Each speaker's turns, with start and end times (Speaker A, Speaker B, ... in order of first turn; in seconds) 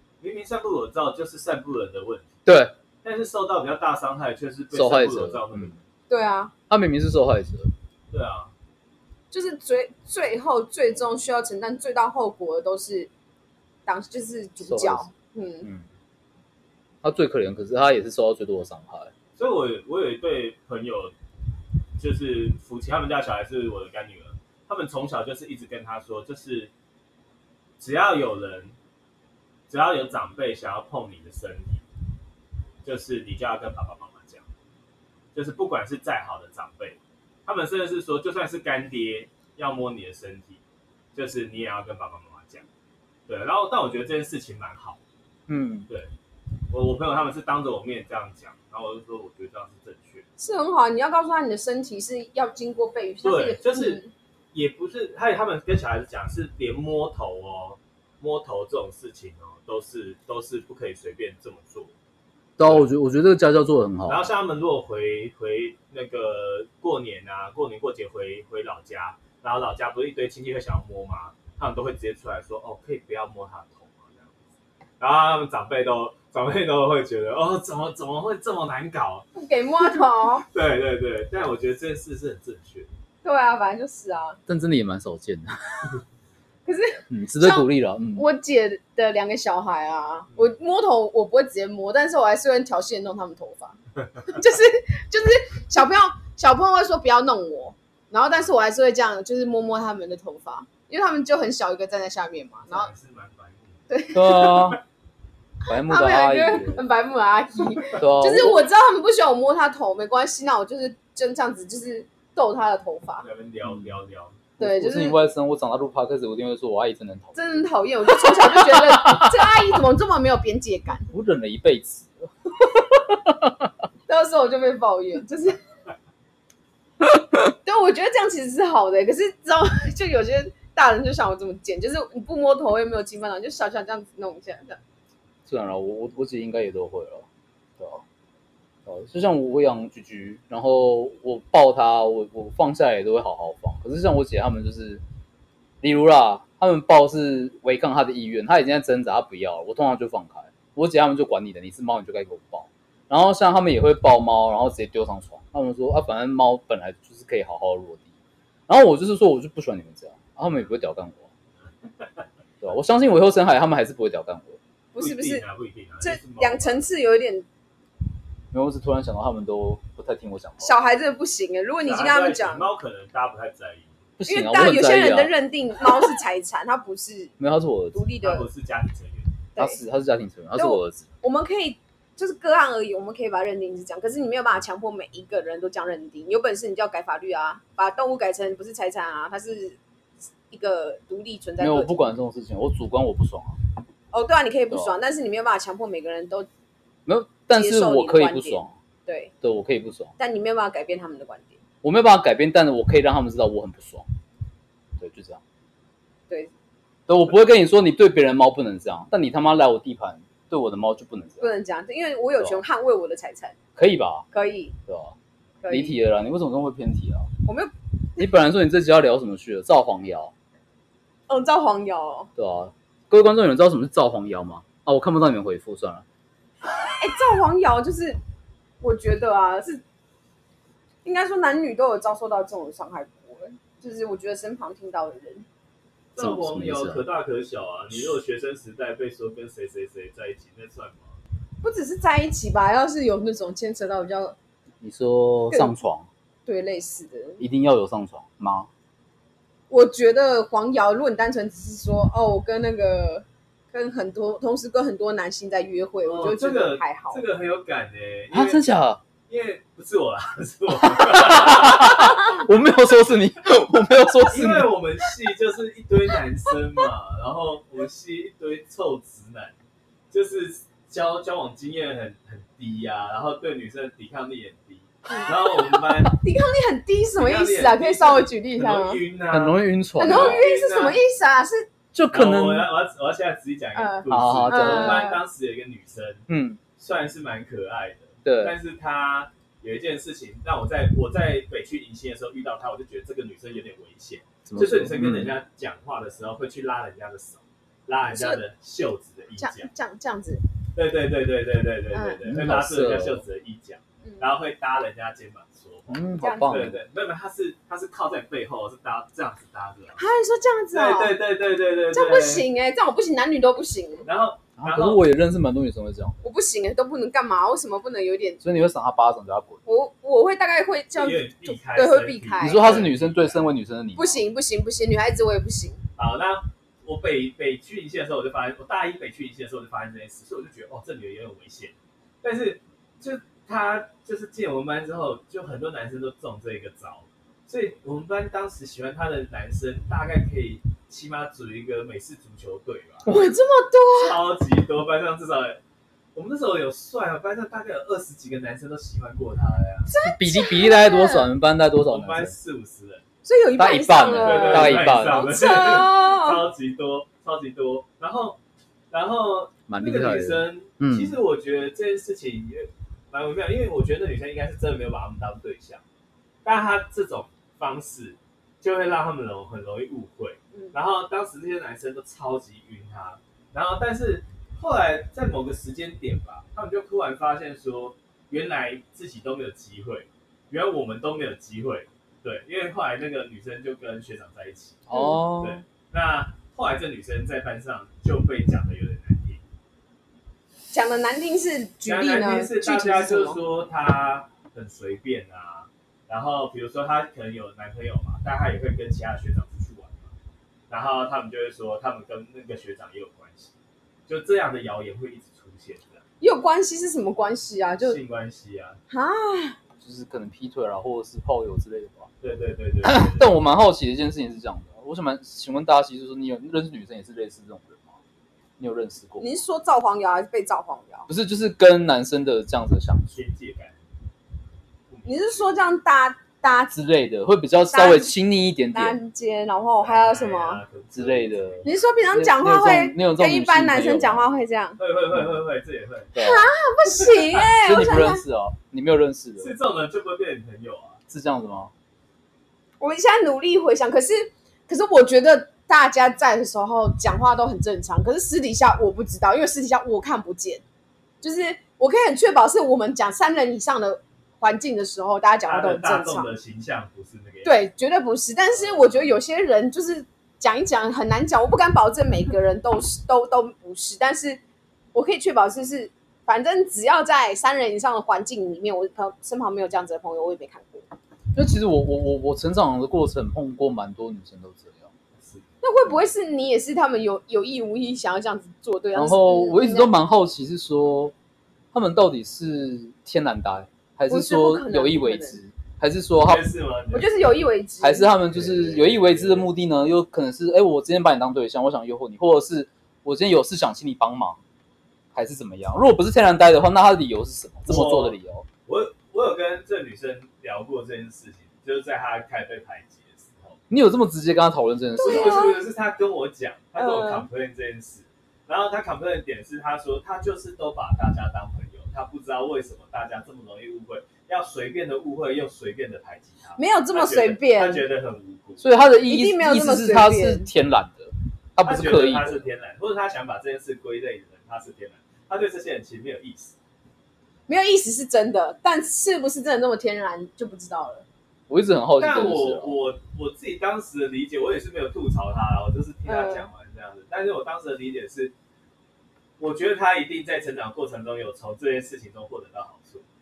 Speaker A: 0.2-2.3, 3.0-5.8, 8.1-8.5, 19.4-21.1, 22.0-26.7, 27.8-28.7, 29.7-31.8, 32.8-34.4, 35.3-40.6, 41.1-42.6, 43.3-45.0, 46.7-50.2, 53.2-54.0, 54.5-61.9, 62.6-62.9, 64.1-74.3, 75.0-79.2, 80.5-82.9, 102.7-104.1, 113.2-114.4, 165.0-166.8, 171.8-173.9, 178.2-179.3, 236.1-241.2, 256.0-258.6, 259.3-262.1, 264.2-269.5, 270.1-276.1, 277.1-281.0, 282.1-286.2, 286.8-299.7, 300.7-310.0, 310.7-312.4, 314.1-315.0, 320.9-323.5, 326.0-343.1, 343.9-345.6, 346.1-349.9, 351.8-353.0, 354.2-358.4, 358.9-365.8, 366.4-384.9, 385.4-389.4, 391.8-400.1, 400.7-403.5, 404.1-406.0, 407.8-408.8, 412.2-413.3, 423.1-423.8, 424.9-425.6, 429.8-431.8, 434.8-436.1, 439.4-441.0, 455.5-457.7, 458.5-459.0, 486.2-487.2, 488.2-489.5, 497.6-503.6, 505.0-518.6, 521.6-526.5, 532.0-538.3, 539.4-543.0
Speaker B: 2.5-2.7, 4.7-5.7, 6.7-7.7, 14.7-15.1, 17.0-19.1, 45.5-45.9, 62.6-64.3, 84.5-86.0, 87.1-88.2, 104.1-104.8, 105.7-106.8, 108.0-108.7, 113.6-113.9, 114.6-117.5, 118.3-119.3, 121.1-123.7, 135.4-137.2, 137.8-138.0, 138.8-145.0, 145.8-158.0, 158.7-161.2, 162.6-164.6, 168.5-170.7, 174.2-175.3, 177.4-178.0, 179.6-181.1, 191.6-193.6, 197.1-198.7, 199.4-200.1, 201.8-204.1, 205.0-205.4, 207.1-211.5, 213.8-214.2, 214.9-215.1, 215.7-217.3, 218.2-220.3, 222.4-226.0, 236.2-237.0, 244.8-246.1, 247.4-248.7, 258.3-259.0, 261.0-264.7, 279.3-280.4, 281.9-282.7, 284.1-285.1, 286.3-286.6, 288.2-288.5, 294.4-295.3, 302.2-303.2, 305.9-306.8, 314.6-316.1, 318.4-319.6, 322.4-324.2, 350.1-352.4, 353.6-355.2, 359.7-361.2, 384.9-385.6, 409.8-412.1, 412.8-418.0, 418.6-419.3, 421.1-423.1, 426.7-429.0, 430.9-434.3, 436.1-436.5, 437.5-439.5, 441.1-441.7, 471.3-474.9, 478.9-481.1, 481.7-486.5, 487.8-494.4, 495.1-498.5, 503.7-505.4, 518.6-522.5, 531.5-532.8
Speaker C: 6.1-6.5, 9.3-13.1, 13.8-15.7, 50.4-54.1, 79.3-80.5, 83.2-84.4, 86.7-102.9, 103.9-104.7, 105.8-113.2, 114.6-115.2, 117.3-121.1, 124.1-125.6, 127.6-134.8, 164.9-165.4, 166.0-167.4, 170.6-172.7, 174.3-177.3, 177.9-178.5, 180.5-189.8, 190.5-192.0, 194.1-196.5, 197.5-199.3, 200.2-201.6, 211.4-213.5, 214.3-214.7, 215.6-216.0, 217.4-217.7, 221.3-222.3, 227.0-228.2, 228.8-229.8, 231.0-235.4, 241.6-244.3, 246.4-247.4, 249.7-257.2, 275.1-279.0, 280.0-281.7, 283.7-285.2, 298.1-298.4, 299.4-300.4, 301.9-302.2, 306.2-306.5, 310.0-311.1, 311.9-314.1, 316.2-318.4, 319.6-322.8, 323.9-325.8, 343.0-344.3, 349.9-351.3, 353.2-356.4, 384.9-385.2, 390.7-393.4, 406.2-408.0, 408.9-409.6, 419.2-421.1, 425.0-426.8, 427.7-428.2, 428.7-430.6, 431.6-434.8, 436.1-438.2, 442.8-450.6, 451.2-456.3, 457.4-464.4, 464.9-470.9, 475.6-479.9, 484.1-485.4, 486.9-488.1, 505.0-505.6, 506.8-507.3, 516.5-517.8, 519.1-520.5, 527.5-531.0, 536.0-536.5